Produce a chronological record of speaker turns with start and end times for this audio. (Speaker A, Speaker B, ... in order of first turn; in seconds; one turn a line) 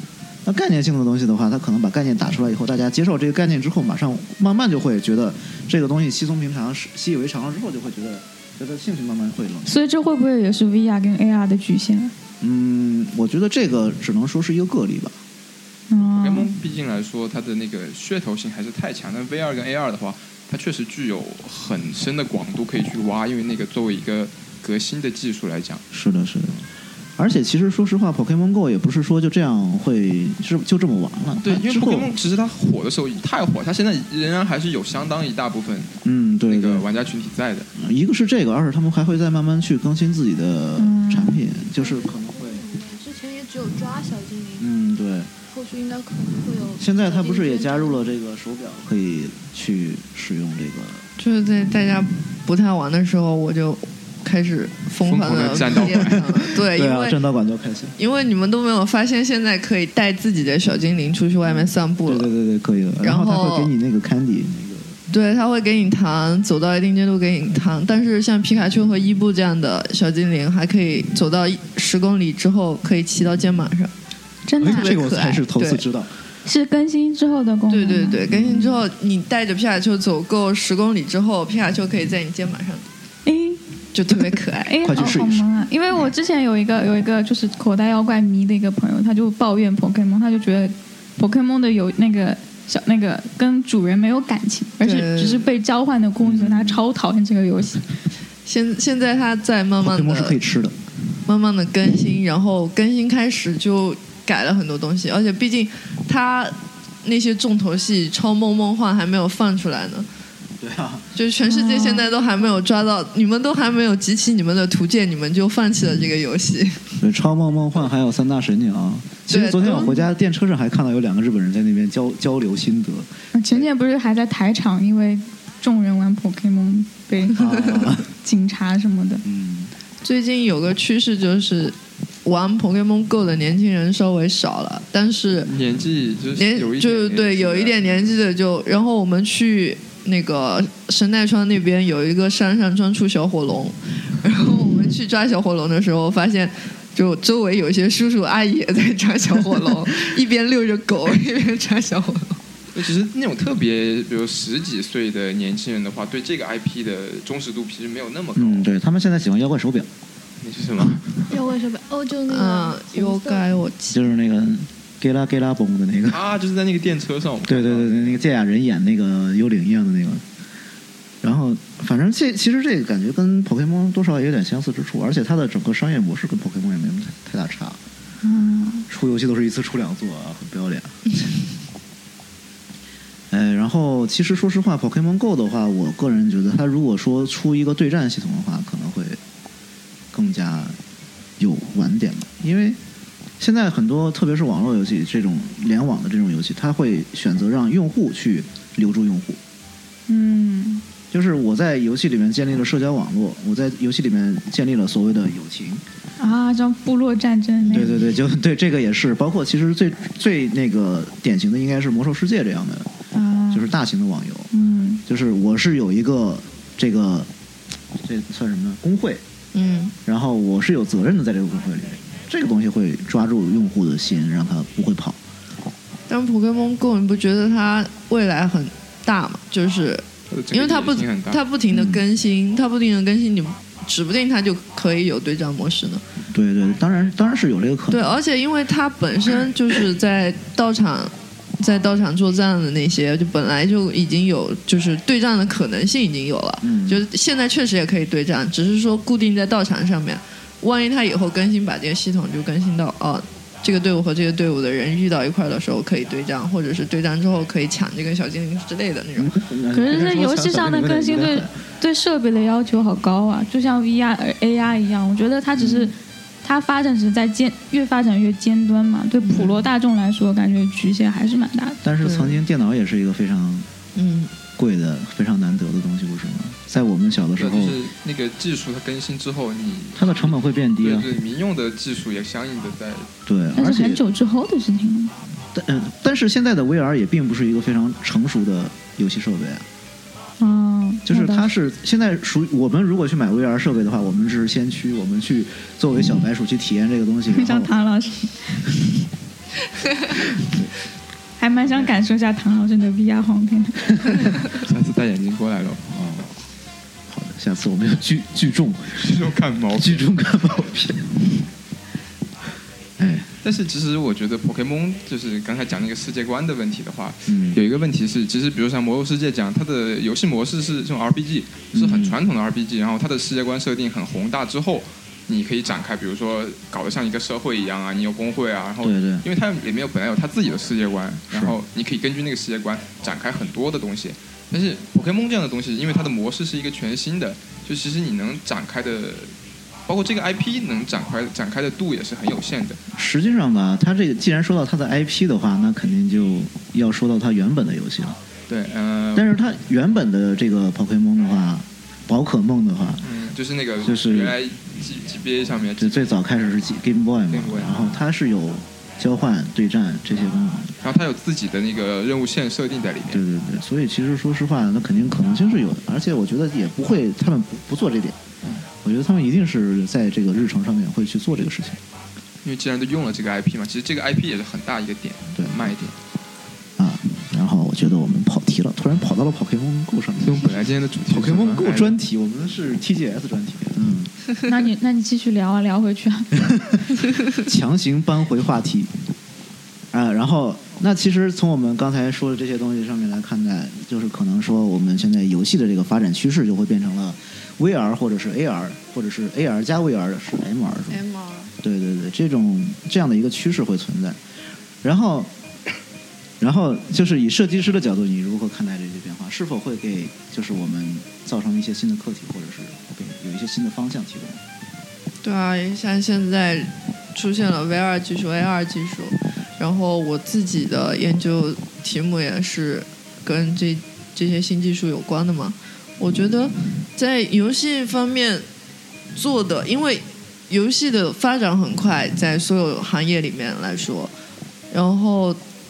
Speaker A: 0.4-9.8
Speaker B: 9.7-12.1
Speaker A: 12.4-15.2
Speaker B: 15.9-16.5
Speaker C: 16.0-25.8
Speaker A: 25.9-32.1
Speaker C: 31.4-36.0
Speaker A: 36.0-36.9
Speaker C: 36.5-37.7
Speaker A: 37.8-42.6
Speaker B: 40.8-41.4
Speaker D: 41.7-44.7
Speaker A: 44.6-45.3
Speaker D: 45.5-48.0
Speaker A: 46.8-51.1
Speaker E: 51.2-57.2
Speaker C: 55.0-56.5
Speaker A: 55.9-58.0
Speaker E: 58.0-62.3
Speaker A: 61.5-65.0
Speaker E: 63.0-63.7
Speaker E: 65.1-73.9
Speaker B: 74.5-74.9
Speaker A: 74.6-76.1
Speaker E: 74.6-75.8
Speaker B: 76.4-78.2
Speaker E: 77.7-82.8
Speaker A: 78.3-78.8
Speaker B: 83.2-83.6
Speaker E: 83.9-84.8
Speaker B: 84.6-97.8
Speaker A: 84.8-85.5
Speaker E: 94.8-95.5
Speaker A: 96.2-96.8
Speaker E: 98.4-100.4
Speaker A: 99.8-100.8
Speaker E: 101.2-110.1
Speaker A: 110.6-111.1
Speaker E: 111.1-116.9
Speaker B: 111.4-112.1
Speaker A: 117.0-123.7
Speaker E: 119.3-120.0
Speaker B: 119.6-120.0
Speaker B: 123.3-129.2
Speaker A: 127.3-128.1
Speaker A: 129.2-129.7
Speaker E: 130.0-135.5
Speaker C: 135.4-138.1
Speaker E: 136.3-152.4
Speaker C: 152.7-158.7
Speaker A: 158.3-159.9
Speaker C: 160.4-161.3
Speaker D: 161.3-163.5
Speaker E: 162.3-164.0
Speaker A: 163.9-166.2
Speaker C: 166.1-168.2
Speaker A: 167.4-170.2
Speaker A: 171.2-177.8
Speaker B: 178.2-178.8
Speaker A: 178.9-181.0
Speaker A: 183.3-189.2
Speaker A: 190.1-190.8
Speaker A: 191.4-192.8
Speaker A: 193.4-199.4
Speaker B: 200.1-200.8
Speaker A: 201.1-205.8
Speaker B: 206.2-208.1
Speaker A: 207.6-212.9
Speaker B: 213.1-213.7
Speaker A: 213.5-214.5
Speaker B: 214.5-215.0
Speaker A: 215.1-217.3
Speaker A: 218.0-219.2
Speaker E: 219.5-219.9
Speaker A: 220.0-225.2
Speaker E: 226.1-236.0
Speaker C: 230.3-231.4
Speaker A: 231.7-232.0
Speaker A: 236.3-238.2
Speaker E: 237.9-259.4
Speaker A: 246.6-247.0
Speaker A: 259.2-261.6
Speaker B: 259.7-271.8
Speaker A: 265.6-265.9
Speaker E: 269.2-269.6
Speaker A: 271.8-273.7
Speaker E: 272.0-272.4
Speaker E: 273.9-274.3
Speaker A: 274.6-277.8
Speaker C: 277.4-283.1
Speaker A: 279.9-281.1
Speaker A: 283.2-284.0
Speaker B: 283.5-285.1
Speaker A: 285.5-289.7
Speaker B: 290.4-291.5
Speaker A: 291.1-297.7
Speaker B: 297.3-298.7
Speaker A: 300.4-300.7
Speaker B: 301.4-304.2
Speaker A: 301.6-301.9
Speaker C: 304.4-305.9
Speaker A: 305.9-306.3
Speaker A: 307.1-309.0
Speaker C: 308.9-310.0
Speaker A: 309.8-311.4
Speaker A: 313.0-313.3
Speaker C: 313.4-339.3
Speaker A: 317.3-317.6
Speaker A: 321.7-322.2
Speaker A: 328.8-329.2
Speaker A: 331.3-331.6
Speaker C: 339.9-342.8
Speaker A: 342.9-348.2
Speaker C: 348.5-349.3
Speaker A: 349.1-353.0
Speaker C: 353.0-356.3
Speaker A: 353.8-354.4
Speaker A: 355.8-360.7
Speaker C: 357.3-357.9
Speaker C: 360.8-363.2
Speaker A: 363.1-368.2
Speaker A: 368.8-371.8
Speaker C: 372.4-375.9
Speaker A: 375.3-375.7
Speaker A: 376.8-384.1
Speaker C: 380.2-382.0
Speaker B: 384.4-386.4
Speaker A: 387.4-388.9
Speaker A: 389.9-401.0
Speaker E: 400.9-401.5
Speaker A: 401.6-404.2
Speaker A: 404.8-405.3
Speaker A: 406.4-414.4
Speaker E: 415.2-428.4
Speaker E: 429.1-434.1
Speaker E: 434.7-435.4